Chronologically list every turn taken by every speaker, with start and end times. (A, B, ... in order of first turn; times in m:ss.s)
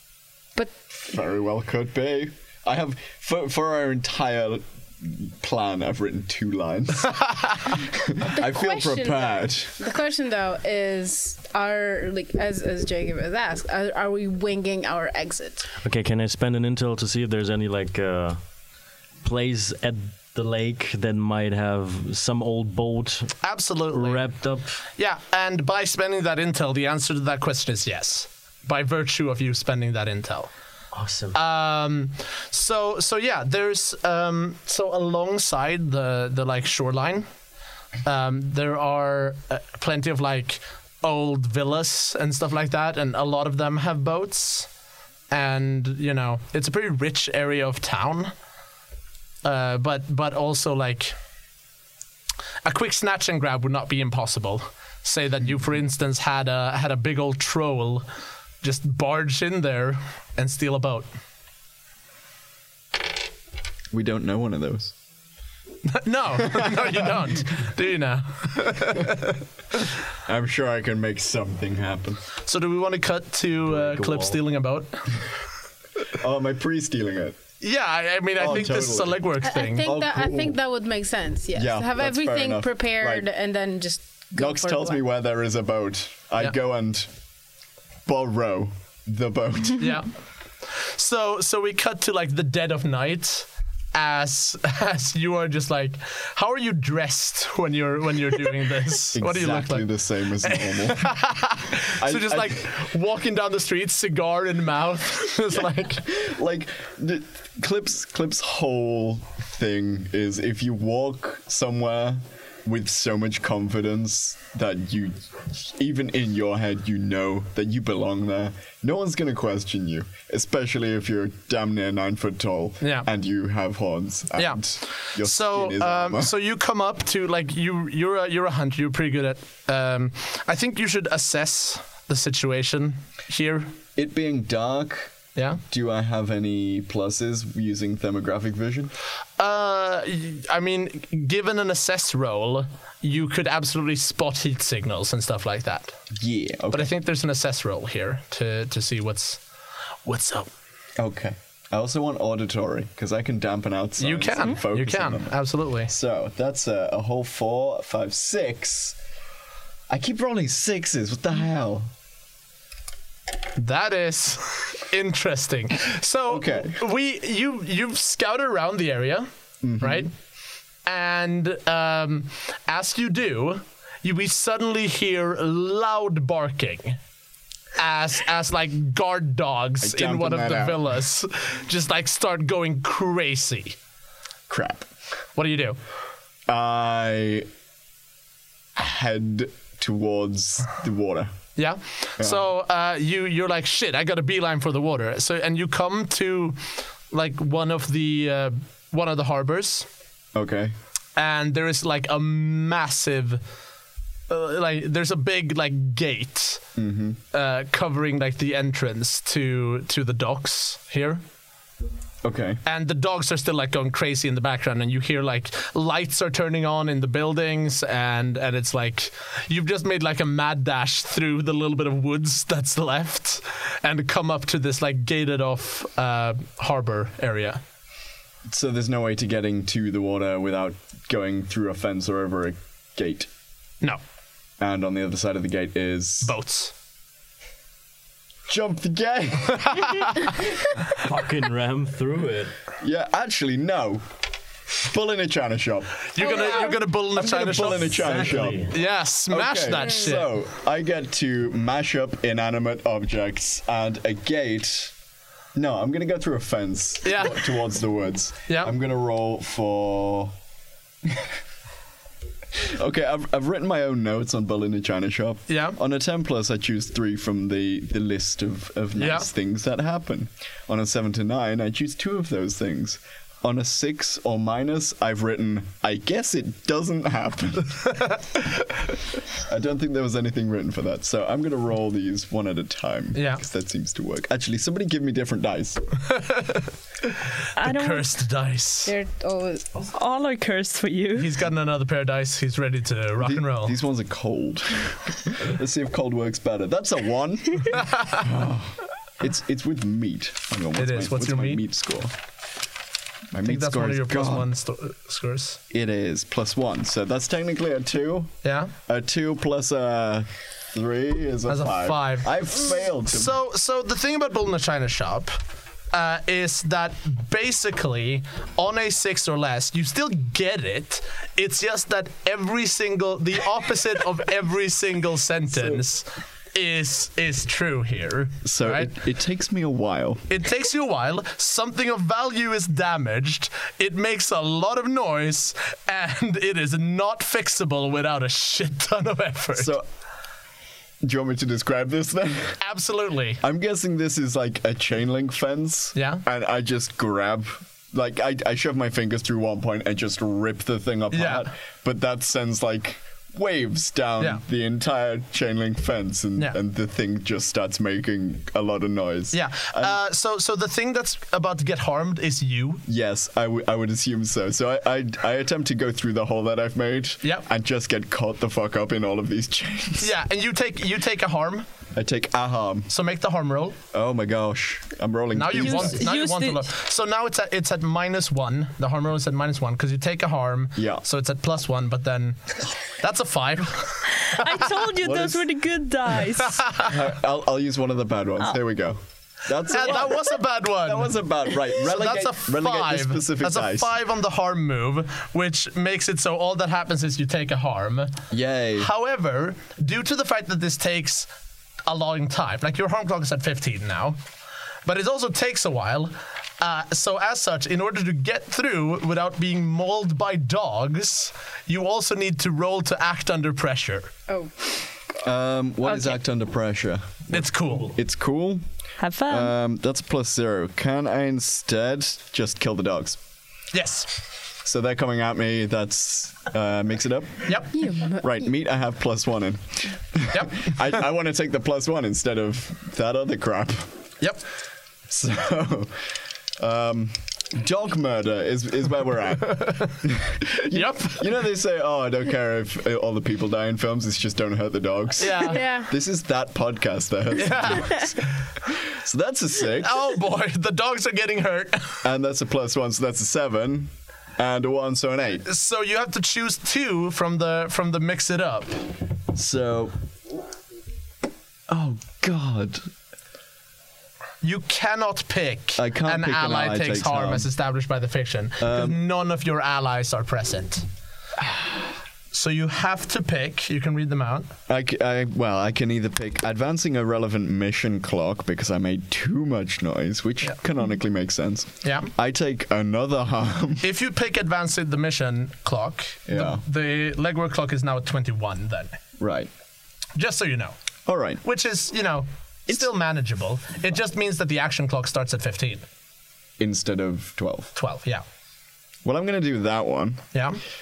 0:00.9-0:09.8 A
0:08.4-0:15.7 B
0:15.8-0:18.4 C
0:19.2-0:23.4 C
0:23.4-0:24.3 D
0:23.9-0:24.8 C
0:25.0-0:30.5 D
0:30.9-0:31.4 C
0:31.3-0:37.3 D
0:38.0-0:44.7 D
0:45.3-0:48.3 D
0:49.4-0:51.2 D
0:52.6-0:58.0 D
0:58.6-1:01.1 D
1:03.9-1:04.9 A
1:05.9-1:09.4 D
1:10.3-1:12.2 A
1:12.4-1:15.2 D
1:13.7-1:14.4 C
1:16.1-1:17.4 A
1:17.6-1:19.9 D
1:18.4-1:19.3 A
1:19.4-1:25.0 B
1:19.8-1:20.6 A
1:21.5-1:23.3 A
1:24.4-1:27.1 A
1:28.1-1:30.0 A
1:29.8-1:30.1 D
1:30.7-1:39.9 D
1:39.1-1:41.2 A
1:40.4-1:46.0 D
1:42.0-1:42.7 A
1:46.0-2:06.3 A
2:02.8-2:03.1 D
2:04.4-2:13.8 D
2:14.0-2:15.2 A
2:15.4-2:15.6 D
2:15.7-2:18.9 A
2:19.4-2:26.0 D
2:26.2-2:26.9 A
2:26.7-2:29.4 D
2:30.1-2:30.5 D
2:31.0-2:39.0 A
2:34.0-2:35.9 D
2:39.9-2:41.9 A
2:43.6-2:49.3 D
2:46.3-2:46.8 A
2:49.6-2:50.1 A
2:49.8-2:50.1 D
2:50.8-2:57.0 D
2:57.8-3:03.8 D
2:59.8-3:00.8 A
3:04.5-3:04.9 A
3:05.4-3:05.8 D
3:06.5-3:07.5 A
3:08.8-3:11.3 A
3:11.6-3:19.9 D
3:12.2-3:12.5 A
3:20.3-3:20.7 A
3:21.2-3:23.4 D
3:24.3-3:26.6 D
3:26.8-3:27.2 A
3:27.3-3:31.2 D
3:32.2-3:32.6 A
3:32.6-3:47.6 D
3:48.5-3:53.3 A
3:54.6-3:56.4 A
3:56.2-3:56.7 D
3:58.5-4:00.7 A
3:59.6-4:00.4 D
4:01.0-4:02.5 C
4:02.8-4:04.0 A
4:04.8-4:08.8 A
4:06.1-4:10.3 D
4:06.2-4:06.8 B
4:07.9-4:08.7 C
4:09.3-4:14.9 A
4:15.6-4:20.3 A
4:17.0-4:17.6 D
4:18.5-4:18.7 D
4:21.0-4:21.3 A
4:22.6-4:38.2 A
4:25.5-4:25.8 D
4:29.0-4:29.3 D
4:38.0-4:38.4 D
4:39.4-4:45.8 A
4:43.2-4:43.4 D
4:46.1-4:48.9 D
4:47.6-4:48.1 E
4:48.8-4:49.8 B
4:49.9-4:51.3 E
4:51.2-4:53.8 D
4:53.2-5:02.1 A
4:57.7-4:58.2 D
5:00.8-5:01.6 D
5:03.3-5:04.5 A
5:03.4-5:05.6 D
5:05.7-5:08.3 A
5:08.4-5:08.7 D
5:08.9-5:13.4 A
5:11.5-5:15.4 D
5:15.9-5:28.9 D
5:25.6-5:25.8 A
5:28.4-5:30.3 A
5:30.3-5:39.8 D
5:39.6-5:39.8 A
5:41.0-5:42.6 A
5:42.6-5:43.4 D
5:43.4-6:00.0 A
5:46.0-5:46.2 D
5:51.1-5:51.5 D
5:59.3-6:02.8 D
6:02.9-6:10.1 A
6:10.0-6:11.7 D
6:12.0-6:12.9 A
6:12.9-6:13.8 D
6:13.9-6:16.0 A
6:15.3-6:24.7 D
6:15.6-6:16.7 E
6:20.8-6:21.0 A
6:24.2-6:26.6 E
6:25.0-6:25.4 A
6:26.4-6:27.0 D
6:26.8-6:33.9 A
6:29.7-6:38.2 D
6:38.3-6:38.9 A
6:38.8-6:41.3 D
6:41.9-6:44.2 D
6:44.9-6:54.1 D
6:54.3-6:54.6 B
6:55.2-6:58.6 A
6:57.3-6:58.0 D
6:59.0-6:59.5 E
6:59.3-7:03.2 A
7:03.7-7:04.2 D
7:04.6-7:13.9 A
7:07.5-7:07.7 D
7:07.7-7:08.2 B
7:10.3-7:10.7 D
7:15.1-7:16.1 A
7:16.6-7:30.0 A
7:19.5-7:19.9 D
7:20.6-7:21.3 D
7:25.2-7:25.6 D
7:25.5-7:25.9 B
7:27.3-7:28.3 D
7:29.8-7:32.1 D
7:32.0-7:35.5 A
7:35.4-7:38.8 D
7:39.3-7:40.0 A
7:41.7-7:42.9 A
7:44.4-7:50.8 D
7:45.8-7:47.5 A
7:48.6-7:49.0 A
7:52.3-7:54.5 D
7:54.7-8:03.8 A
8:01.8-8:02.1 D
8:03.8-8:09.0 D
8:06.3-8:06.6 A
8:09.2-8:09.5 A
8:10.2-8:10.8 D
8:11.1-8:11.4 A
8:11.4-8:15.8 D
8:16.6-8:17.7 A
8:17.8-8:18.2 D
8:19.0-8:20.3 A
8:20.3-8:20.6 D